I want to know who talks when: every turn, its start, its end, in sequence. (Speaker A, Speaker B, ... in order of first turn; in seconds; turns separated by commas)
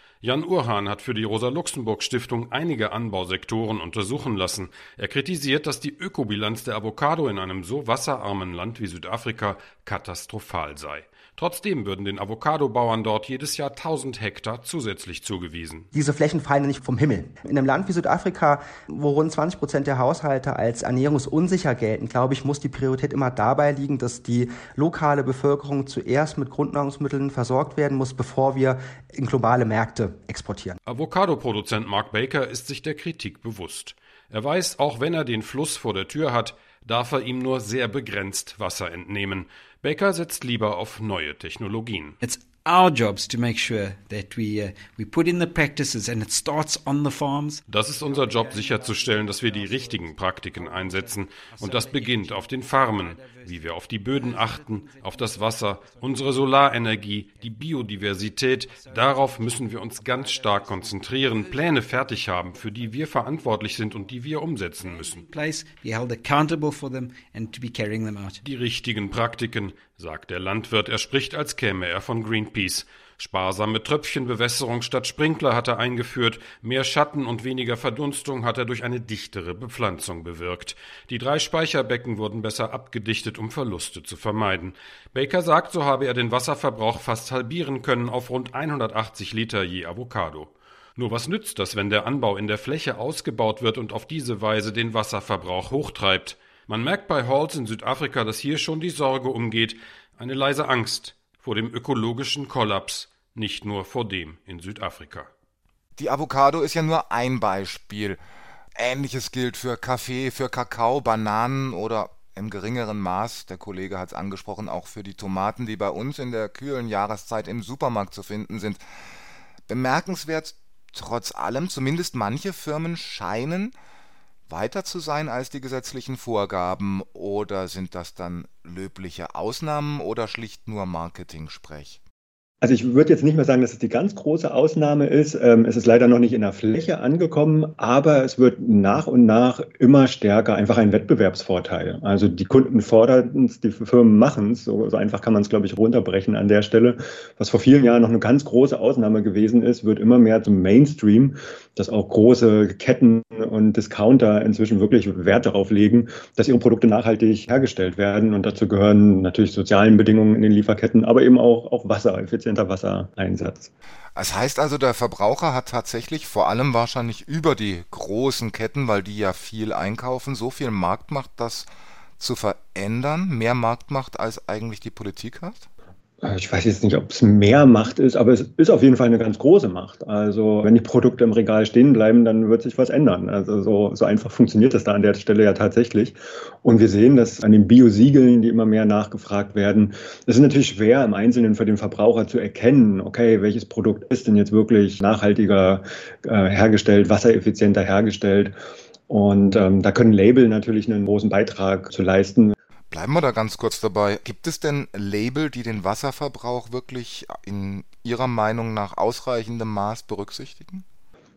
Speaker A: 0.2-15.9, Speaker B: 15.9-30.8, Speaker A: 30.9-42.2, Speaker C: 42.2-64.2, Speaker A: 47.7-65.2, Speaker C: 64.8-68.4, Speaker A: 68.4-105.3, Speaker D: 106.0-108.2, Speaker D: 108.8-118.8, Speaker D: 119.7-123.8, Speaker D: 124.5-132.0, Speaker E: 132.6-163.7, Speaker D: 164.2-175.7, Speaker E: 176.2-198.6, Speaker E: 199.1-202.6, Speaker D: 202.9-210.8